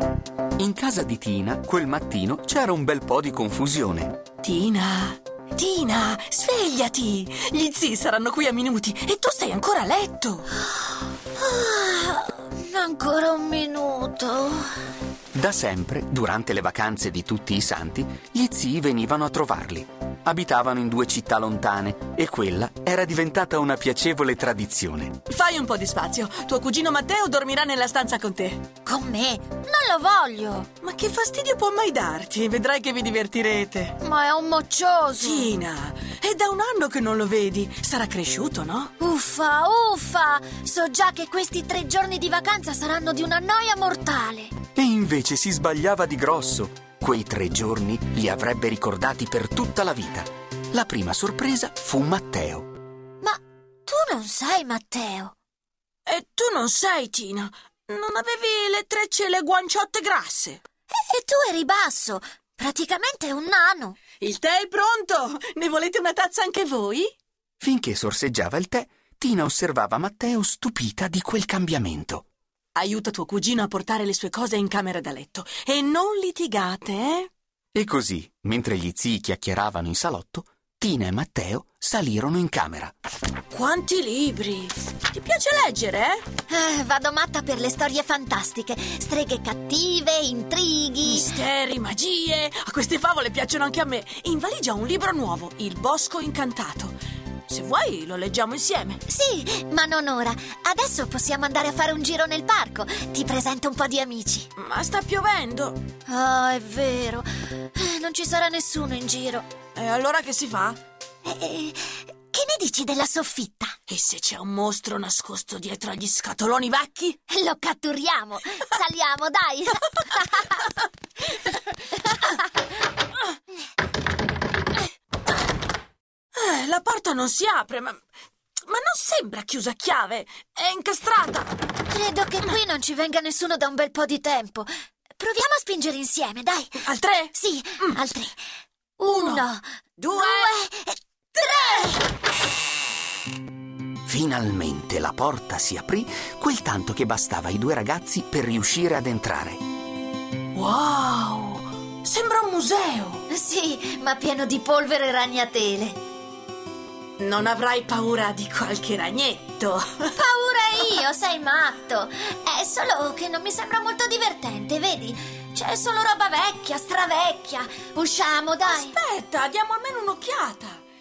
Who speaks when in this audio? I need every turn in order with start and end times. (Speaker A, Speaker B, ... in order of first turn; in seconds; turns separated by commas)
Speaker A: 0.6-4.2, Speaker B: 4.4-10.5, Speaker C: 11.3-14.7, Speaker A: 15.3-25.2, Speaker B: 25.3-28.7, Speaker C: 28.9-30.7, Speaker B: 30.8-34.0, Speaker C: 34.0-35.5, Speaker B: 35.2-38.9, Speaker C: 39.0-44.5, Speaker A: 44.8-52.7, Speaker C: 53.2-55.3, Speaker B: 56.1-60.6, Speaker C: 60.9-64.0, Speaker B: 64.2-67.1, Speaker A: 67.6-72.3, Speaker B: 72.8-77.3, Speaker A: 77.7-82.9, Speaker B: 83.5-86.2, Speaker C: 86.5-91.3, Speaker B: 91.0-97.0, Speaker B: 97.5-99.0, Speaker C: 99.1-104.5, Speaker B: 104.6-105.8, Speaker C: 106.1-109.5, Speaker B: 109.8-110.8, Speaker C: 111.2-113.8, Speaker B: 113.9-117.2, Speaker C: 117.3-120.6, Speaker C: 122.0-122.4, Speaker B: 126.3-128.0, Speaker B: 128.6-131.6, Speaker C: 131.9-138.4, Speaker B: 136.8-138.0, Speaker C: 139.0-142.0, Speaker B: 139.1-139.4, Speaker B: 140.0-140.6, Speaker B: 141.4-142.0, Speaker A: 144.1-149.6, Speaker B: 150.5-153.3, Speaker C: 153.3-156.0, Speaker B: 157.2-160.2, Speaker C: 160.1-169.0, Speaker B: 168.7-170.8